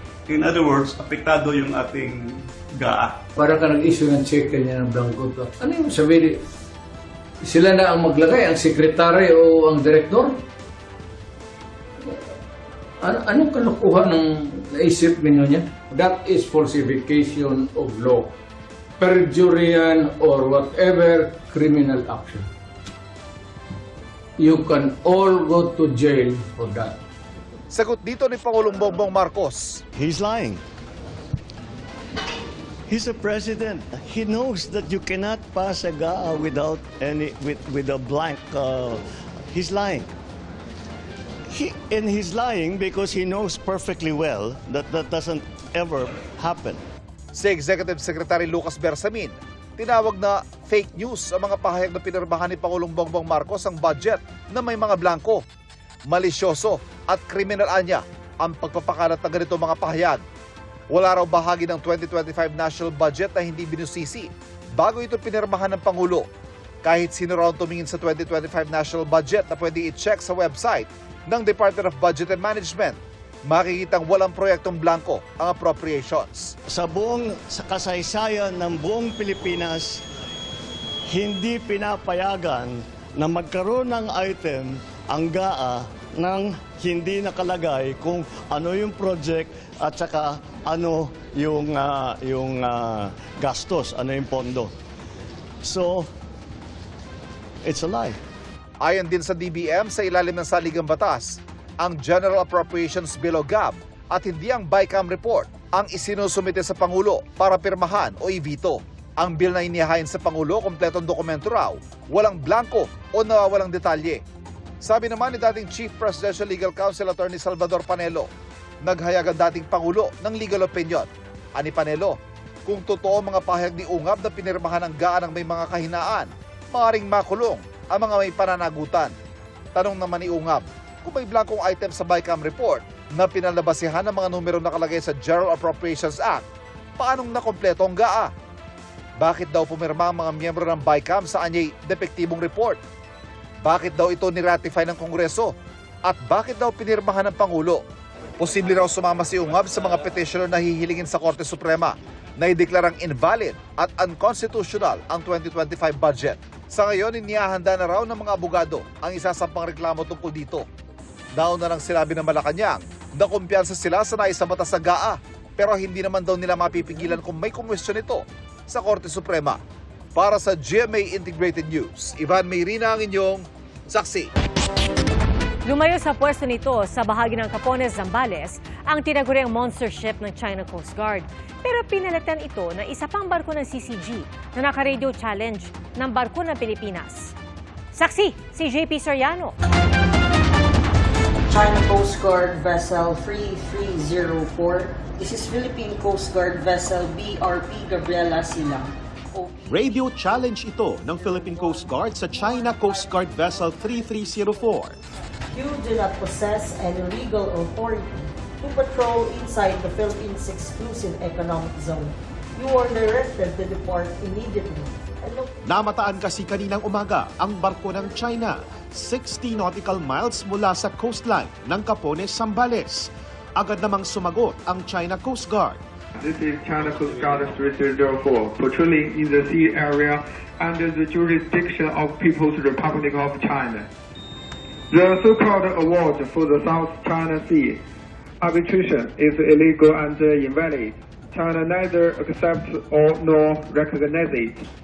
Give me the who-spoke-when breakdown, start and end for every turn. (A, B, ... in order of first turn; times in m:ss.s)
0:00.3-0:03.2 A
0:03.4-0:06.4 B
0:07.4-0:10.4 B
0:13.0-0:18.3 B
0:19.0-0:22.5 B
0:24.4-0:27.0 B
0:27.7-0:29.8 C
0:29.9-0:30.6 D
0:32.9-0:40.1 D
0:41.5-0:46.8 D
0:47.3-0:55.4 C
0:56.1-1:00.2 C
1:00.9-1:06.3 C
1:06.8-1:16.5 C
1:16.6-1:20.0 D
1:21.1-1:34.7 D
1:35.6-1:36.1 D
1:37.6-1:38.2 D
1:38.8-1:54.2 C
1:54.8-1:58.3 C
1:58.8-2:09.1 C
2:09.7-2:16.4 C
2:17.0-2:18.3 C
2:19.2-2:22.8 C
2:23.6-2:27.8 C
2:28.4-2:40.6 C
2:41.4-2:49.6 C
2:50.1-2:54.3 C
2:55.6-3:07.3 E
3:07.9-3:09.5 E
3:11.5-3:19.9 F
3:19.6-3:25.0 G
3:25.5-3:35.5 F
3:35.6-3:45.8 G
3:46.2-3:53.9 H
3:54.9-3:57.8 H
3:58.4-4:04.6 H